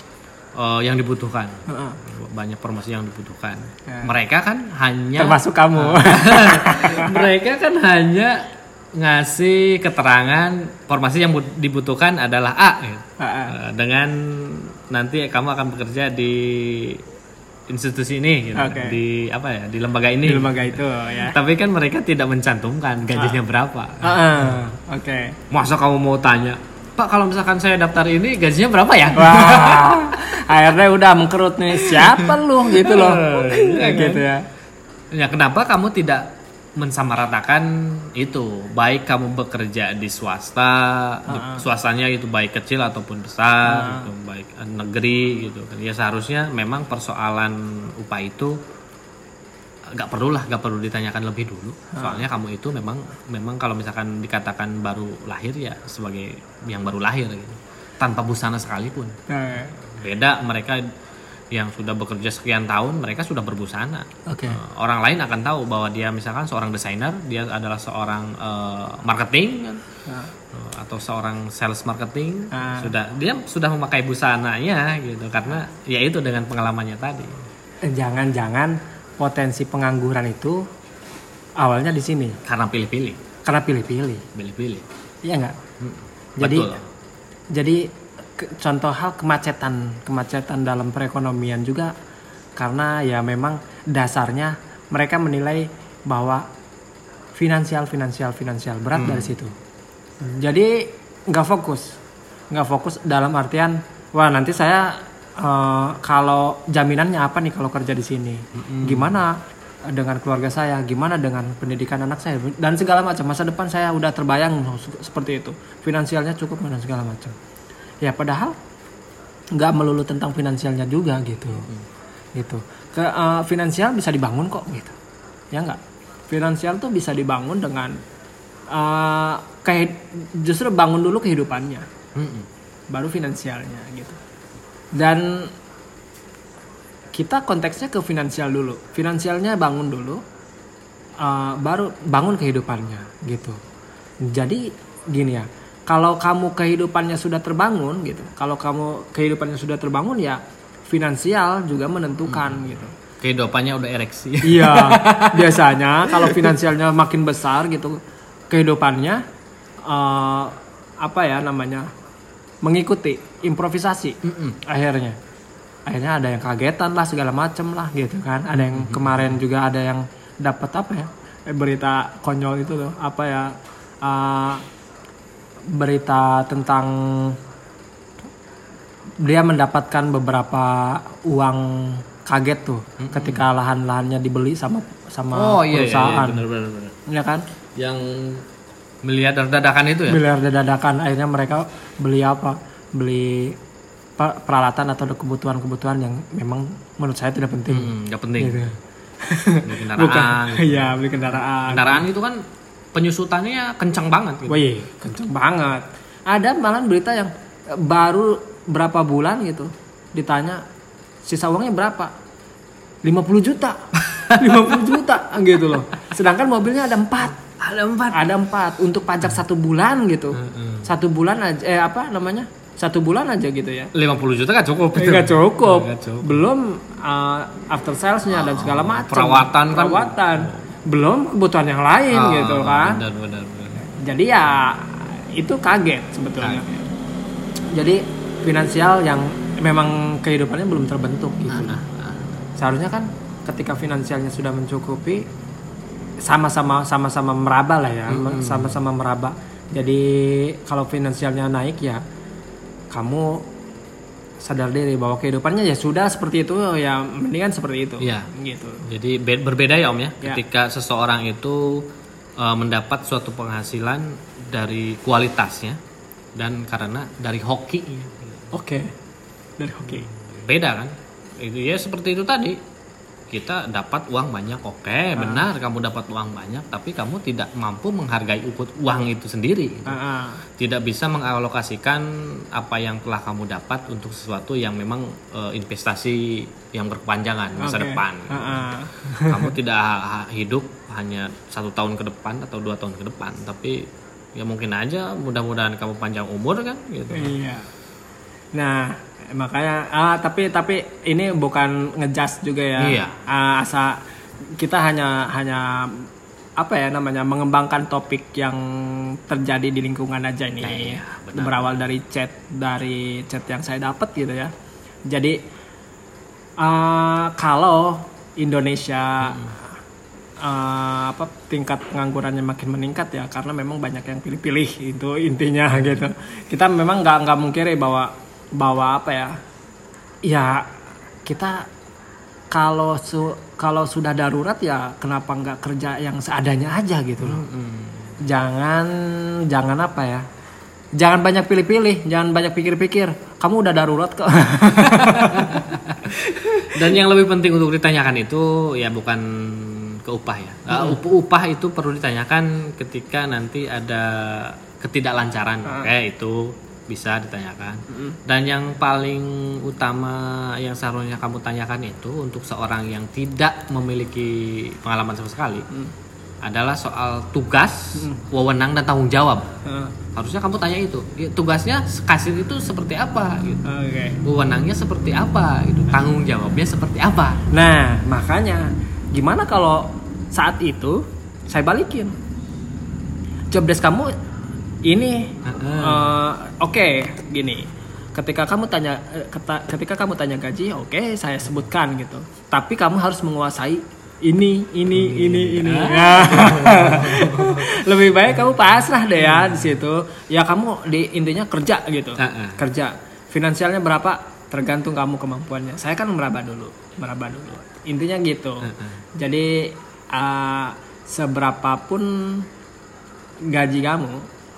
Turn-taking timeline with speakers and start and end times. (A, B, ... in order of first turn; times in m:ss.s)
0:00.6-0:17.0 A
0:01.7-0:02.0 B
0:05.2-0:07.2 B
0:13.2-0:13.6 B
0:17.7-0:24.3 A
0:18.6-0:19.0 B
0:20.2-0:21.4 B
0:24.0-0:25.4 B
0:25.5-0:30.0 A
0:29.2-0:34.4 B
0:31.8-0:34.3 A
0:35.1-0:36.2 A
0:36.8-0:48.6 A
0:41.3-0:41.6 B
0:43.6-0:44.1 B
0:49.9-1:00.8 A
0:51.9-0:52.2 B
0:59.3-0:59.8 B
1:01.5-1:09.8 A
1:04.2-1:04.6 B
1:10.1-1:10.3 B
1:10.5-1:17.4 A
1:12.5-1:12.9 B
1:17.8-1:20.6 B
1:21.6-1:22.4 B
1:22.4-1:23.2 A
1:23.4-1:24.2 B
1:24.3-1:24.8 A
1:25.2-1:25.5 B
1:25.8-1:26.8 A
1:26.4-1:26.8 B
1:27.5-1:31.9 B
1:32.6-1:36.4 B
1:37.3-1:39.6 B
1:38.9-1:39.3 A
1:40.2-1:42.0 B
1:42.5-1:57.4 B
1:48.5-1:49.2 A
1:58.0-1:58.6 B
1:59.5-2:01.7 B
2:02.4-2:05.0 B
2:05.5-2:08.0 B
2:08.7-2:11.8 B
2:12.1-2:12.5 A
2:12.9-2:14.2 B
2:14.9-2:15.5 B
2:17.1-2:20.2 B
2:21.2-2:23.6 B
2:24.2-2:32.9 B
2:32.3-2:36.5 A
2:34.4-2:39.2 B
2:39.8-2:41.9 B
2:42.6-2:45.2 B
2:44.2-2:44.6 A
2:45.9-2:54.6 B
2:48.6-2:49.4 A
2:55.7-2:57.4 B
2:59.2-3:06.4 B
3:03.0-3:03.4 A
3:05.3-3:07.0 A
3:07.0-3:07.4 B
3:07.8-3:08.4 A
3:09.0-3:10.2 A
3:10.1-3:13.6 B
3:14.2-3:22.0 B
3:17.7-3:18.7 A
3:19.6-3:22.4 A
3:22.9-3:24.6 A
3:24.5-3:30.6 B
3:31.2-3:32.1 B
3:33.0-3:37.4 B
3:34.0-3:34.9 A
3:37.5-3:38.3 A
3:38.1-3:43.9 B
3:40.3-3:40.8 A
3:43.9-3:46.4 A
3:44.9-3:53.0 B
3:48.3-3:50.6 A
3:52.1-3:53.8 A
3:53.8-3:56.9 B
3:57.7-4:01.8 B
4:01.5-4:02.4 A
4:02.6-4:05.2 B
4:06.2-4:12.0 B
4:08.1-4:08.8 A
4:12.9-4:13.5 B
4:14.4-4:18.8 B
4:18.0-4:18.3 A
4:18.8-4:21.8 A
4:22.4-4:25.8 A
4:26.4-4:28.5 A
4:28.5-4:28.9 B
4:29.6-4:30.1 B
4:29.8-4:32.6 A
4:33.3-4:40.0 A
4:35.2-4:35.5 B
4:39.8-4:40.4 B
4:40.6-4:57.4 A
4:47.6-4:49.5 B
4:57.1-4:57.7 B
4:58.5-5:04.0 B
5:02.8-5:03.2 A
5:04.6-5:06.0 B
5:06.6-5:14.5 B
5:10.6-5:11.8 A
5:15.1-5:15.4 B
5:16.6-5:19.6 B
5:19.2-5:19.5 A
5:20.4-5:29.4 B
5:30.3-5:30.7 B
5:31.3-5:31.7 B
5:32.5-5:37.4 B
5:37.2-5:38.2 A
5:38.2-5:40.2 B
5:41.0-5:46.7 B
5:44.8-6:05.6 A
5:57.9-5:58.2 B
6:06.4-6:09.5 A
6:07.9-6:08.2 B
6:09.6-6:09.9 B
6:10.1-6:13.6 A
6:13.6-6:14.2 B
6:14.2-6:17.4 A
6:17.5-6:22.1 B
6:23.5-6:24.1 B
6:24.9-6:52.4 B
6:25.4-6:26.2 A
6:34.9-6:37.7 A
6:42.2-6:42.6 A
6:48.6-6:49.0 A
6:53.4-6:54.3 B